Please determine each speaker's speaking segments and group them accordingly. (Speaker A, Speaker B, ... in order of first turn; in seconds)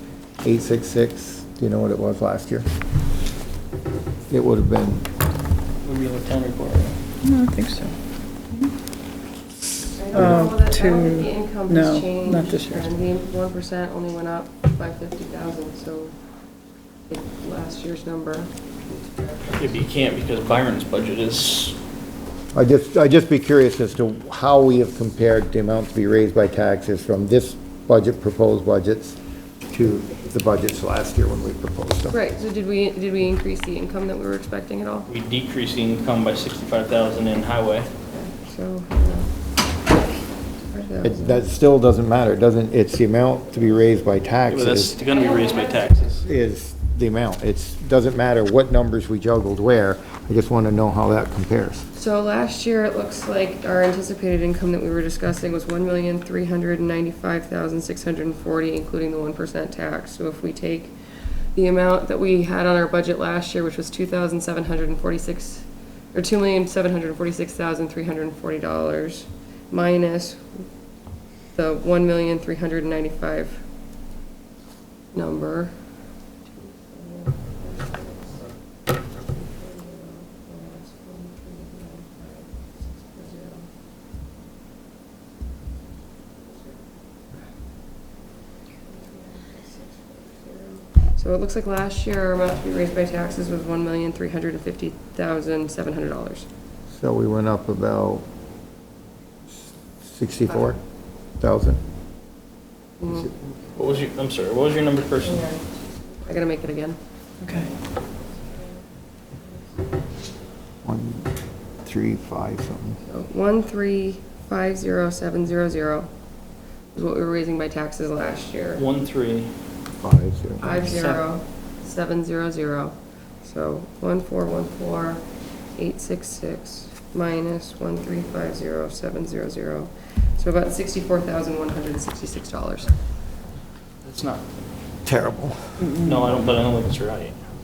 Speaker A: 0.4-2.7, 4.3-5.0, 22.5-29.2, 29.7-32.1, 41.0-45.0, 46.1-51.9, 96.9-98.2, 100.0-100.8, 101.4-101.8, 110.8-111.3, 111.8-113.0, 120.0-120.8, 135.0-135.8
Speaker B: 5.8-7.0, 19.6-21.8, 35.1-37.9, 44.5-46.2, 103.8-105.5, 118.8-119.5, 134.0-134.5, 136.0-137.4
Speaker C: 7.2-7.9, 10.1-12.9, 107.4-107.7, 135.8-136.2
Speaker D: 10.0-16.1, 17.1-19.6, 32.1-35.1, 38.1-39.3, 40.7-41.5, 45.0-45.4, 51.9-60.9, 61.5-70.5, 71.5-73.6, 75.1-75.7, 76.5-78.5, 79.3-82.5, 83.0-83.7, 88.8-96.5, 103.0-103.3, 105.2-107.0, 113.1-116.1, 116.9-118.8, 120.6-125.2, 125.8-132.9